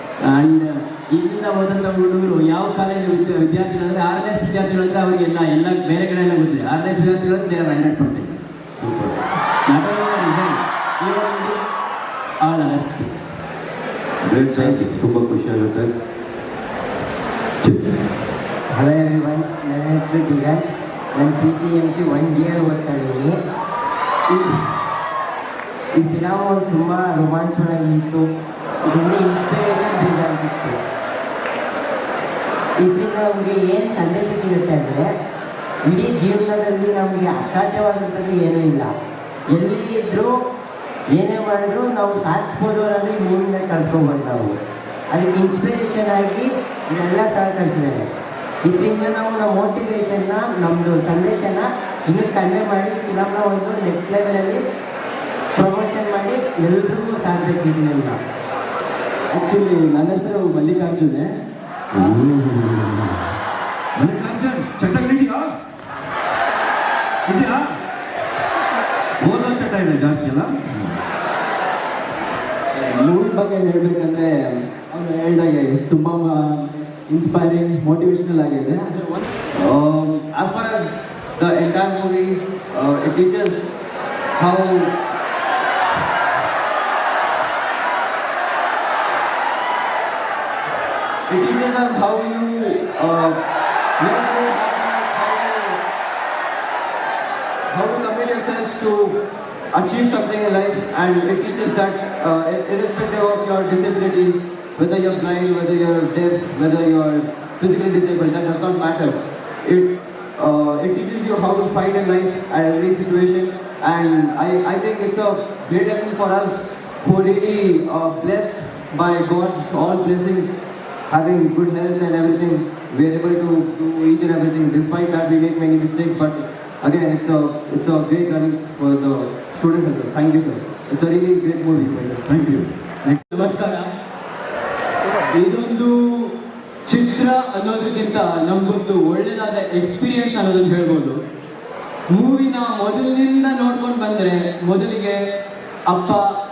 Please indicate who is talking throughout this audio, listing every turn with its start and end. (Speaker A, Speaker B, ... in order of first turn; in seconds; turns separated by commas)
Speaker A: 0.2-9.1, Speaker A: 9.7-11.6, Speaker A: 12.4-13.4, Speaker B: 14.2-15.9, Speaker A: 14.5-15.0, Speaker C: 18.7-23.4, Speaker C: 25.9-28.2, Speaker C: 28.9-30.8, Speaker C: 32.8-35.1, Speaker C: 35.8-38.9, Speaker C: 39.5-40.3, Speaker C: 41.1-44.6, Speaker C: 45.1-48.1, Speaker C: 48.6-54.6, Speaker C: 55.5-58.2, Speaker A: 59.3-61.4, Speaker B: 61.9-63.1, Speaker B: 64.0-65.5, Speaker B: 67.3-67.7, Speaker B: 69.2-70.9, Speaker D: 72.8-73.2, Speaker D: 79.5-83.6, Speaker D: 84.3-84.9, Speaker D: 91.3-93.4, Speaker D: 94.0-95.8, Speaker D: 97.7-99.2, Speaker D: 99.7-120.6, Speaker D: 121.1-132.2, Speaker B: 132.3-133.2, Speaker E: 133.3-133.9, Speaker E: 135.3-136.3, Speaker E: 136.8-141.2, Speaker E: 142.1-145.2, Speaker E: 145.9-146.2